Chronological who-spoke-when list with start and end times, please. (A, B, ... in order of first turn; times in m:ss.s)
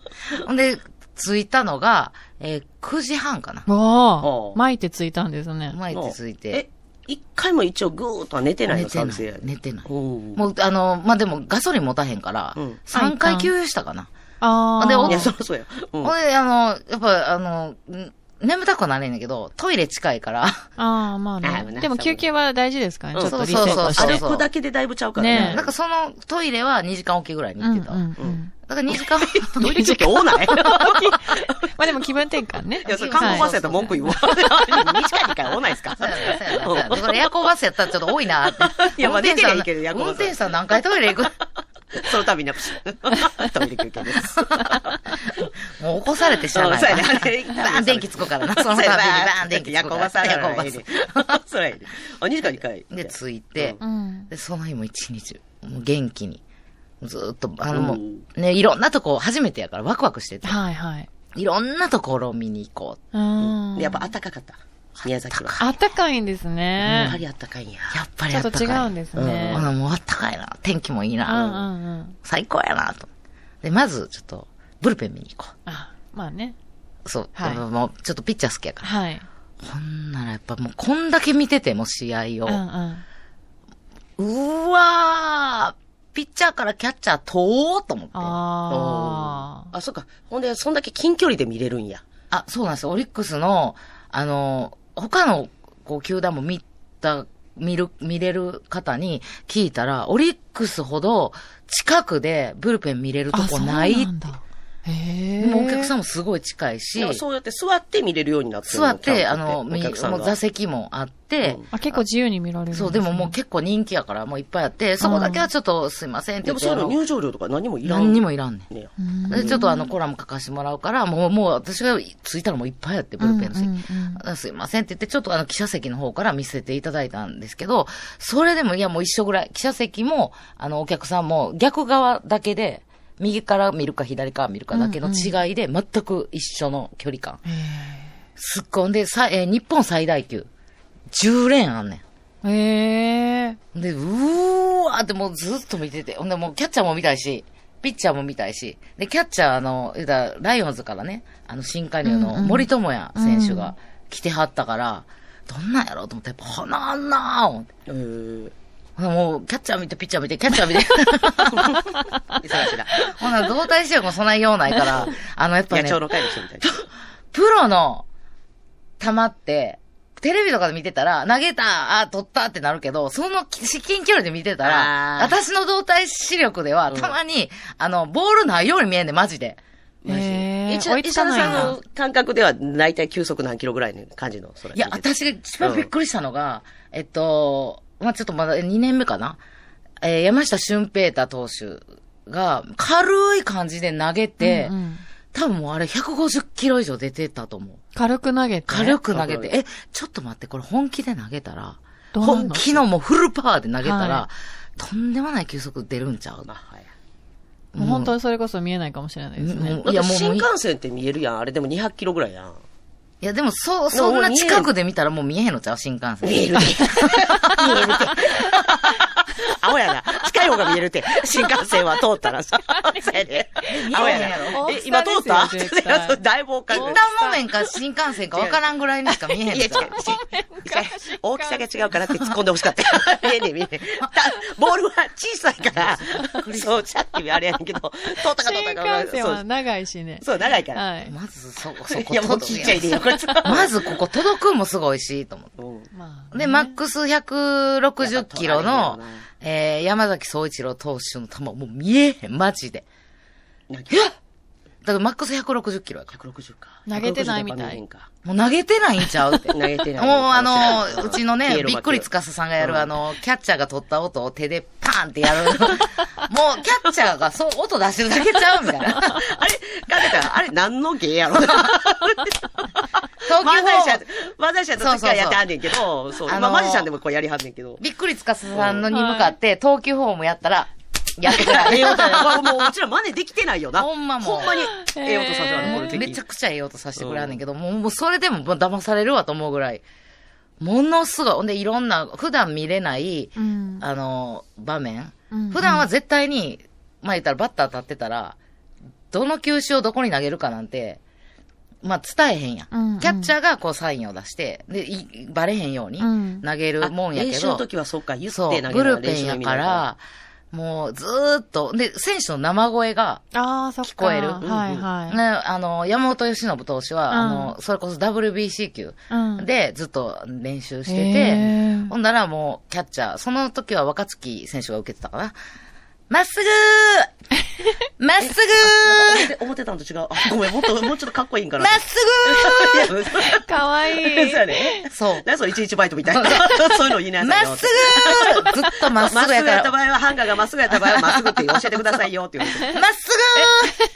0:00.3-0:03.6 A
0:03.6-0:05.8 B
0:04.2-0:04.6 C
0:05.7-0:06.6 A
0:05.9-0:10.4 C
0:08.7-0:14.1 A
0:12.6-0:12.8 C
0:12.9-0:13.5 B
0:14.4-0:15.3 B
0:14.8-0:15.3 A
0:15.0-0:16.1 C
0:16.0-0:20.7 A
0:20.8-0:24.2 B
0:21.4-0:22.3 C
0:23.1-0:25.7 C
0:23.2-0:24.5 A
0:25.2-0:25.6 B
0:25.3-0:28.1 A
0:27.6-0:28.5 B
0:28.6-0:29.7 A
0:28.9-0:32.0 C
0:29.6-0:34.8 B
0:32.8-0:34.1 A
0:32.8-0:37.2 C
0:36.0-0:41.3 A
0:38.6-0:40.8 C
0:41.9-0:45.5 C
0:45.7-0:51.4 A
0:46.5-0:53.8 C
0:52.9-0:56.4 A
0:53.8-0:54.3 B
0:57.0-1:00.6 A
0:57.7-0:58.2 C
1:00.4-1:01.1 B
1:01.3-1:03.0 A
1:03.1-1:04.1 B
1:03.4-1:05.7 C
1:05.3-1:05.7 A
1:05.6-1:07.1 B
1:06.8-1:08.0 C
1:06.8-1:07.2 A
1:07.9-1:08.9 A
1:08.3-1:09.6 B
1:09.1-1:09.7 C
1:09.5-1:11.6 A
1:11.3-1:11.6 C
1:11.3-1:12.2 B
1:12.2-1:13.1 A
1:13.6-1:15.5 A
1:15.7-1:16.5 B
1:17.0-1:18.9 A
1:17.4-1:17.6 B
1:18.8-1:19.2 B
1:19.6-1:22.6 A
1:22.4-1:23.0 B
1:24.2-1:28.4 A
1:28.1-1:29.7 B
1:28.7-1:32.0 C
1:32.3-1:44.1 A
1:43.3-1:45.9 B
1:45.4-1:47.2 A
1:46.9-1:50.3 C
1:48.7-1:52.0 A
1:51.4-1:51.7 C
1:51.7-1:53.3 B
1:52.7-1:57.0 A
1:55.0-1:55.4 B
1:56.4-1:59.6 C
1:57.8-1:58.7 A
1:59.0-1:59.9 B
1:59.3-2:17.4 A
2:03.2-2:04.2 B
2:14.7-2:15.3 B
2:17.5-2:18.0 B
2:18.4-2:20.5 A
2:21.1-2:22.0 A
2:22.4-2:23.6 B
2:23.7-2:37.7 A
2:32.0-2:33.7 B
2:37.9-2:38.5 C
2:39.0-2:41.8 A
2:41.5-2:43.1 C
2:43.0-2:48.0 A
2:44.8-2:45.1 C
2:45.7-2:46.7 C
2:49.0-2:59.6 A
2:54.6-2:55.4 C
3:00.0-3:05.0 C
3:00.1-3:01.7 B
3:01.3-3:01.8 A
3:04.7-3:09.4 A
3:05.6-3:05.9 C
3:10.0-3:14.8 A
3:14.4-3:15.0 B
3:15.3-3:17.8 A
3:17.9-3:19.0 B
3:18.7-3:26.5 A
3:19.1-3:19.5 C
3:22.1-3:22.7 B
3:23.8-3:24.2 B
3:26.5-3:26.9 C
3:27.7-3:28.1 A
3:27.8-3:29.8 B
3:29.4-3:30.5 A
3:29.8-3:32.6 C
3:33.2-3:38.9 A
3:33.9-3:34.7 C
3:36.2-3:47.0 C
3:42.9-3:43.3 B
3:43.6-3:44.7 A
3:44.5-3:46.2 B
3:46.7-3:50.0 A
3:46.8-3:47.4 B
3:48.3-3:48.6 C
3:49.4-3:59.5 C
3:49.9-3:51.6 B
3:55.7-3:56.9 A
3:58.4-4:01.1 B
4:00.2-4:00.8 C
4:01.0-4:05.5 A
4:01.9-4:04.0 C
4:05.6-4:05.9 C
4:05.9-4:06.7 B
4:06.3-4:12.8 A
4:08.0-4:09.2 C
4:13.7-4:14.1 C
4:14.8-4:16.1 A
4:16.1-4:18.1 C
4:16.9-4:17.8 B
4:18.2-4:29.4 A
4:19.5-4:22.1 C
4:22.6-4:22.9 C
4:28.4-4:37.8 C
4:33.2-4:34.0 A
4:34.8-4:35.5 A
4:36.3-4:36.9 A
4:37.8-4:42.7 A
4:38.5-4:38.9 C
4:38.9-4:39.3 B
4:41.3-4:46.2 C
4:43.8-4:44.7 A
4:44.7-4:46.0 B
4:45.6-4:49.8 A
4:47.0-4:47.4 C
4:50.6-4:58.4 A
4:53.4-4:53.8 B
4:55.3-4:55.8 B
4:59.1-5:01.0 A
5:01.8-5:07.6 A
5:02.7-5:03.3 B
5:06.0-5:06.4 B
5:06.8-5:09.8 C
5:08.3-5:10.0 A
5:10.5-5:13.2 A
5:13.3-5:15.2 B
5:13.8-5:14.4 A
5:14.4-5:14.9 C
5:15.1-5:25.4 A
5:17.1-5:17.5 B
5:19.1-5:19.4 B
5:20.9-5:21.9 B
5:26.1-5:27.1 A
5:28.0-5:29.3 A
5:28.2-5:42.8 C
5:31.6-5:33.1 A
5:33.3-5:34.8 B
5:34.9-5:35.2 A
5:36.0-5:39.7 A
5:40.7-5:41.8 A
5:42.6-5:43.8 A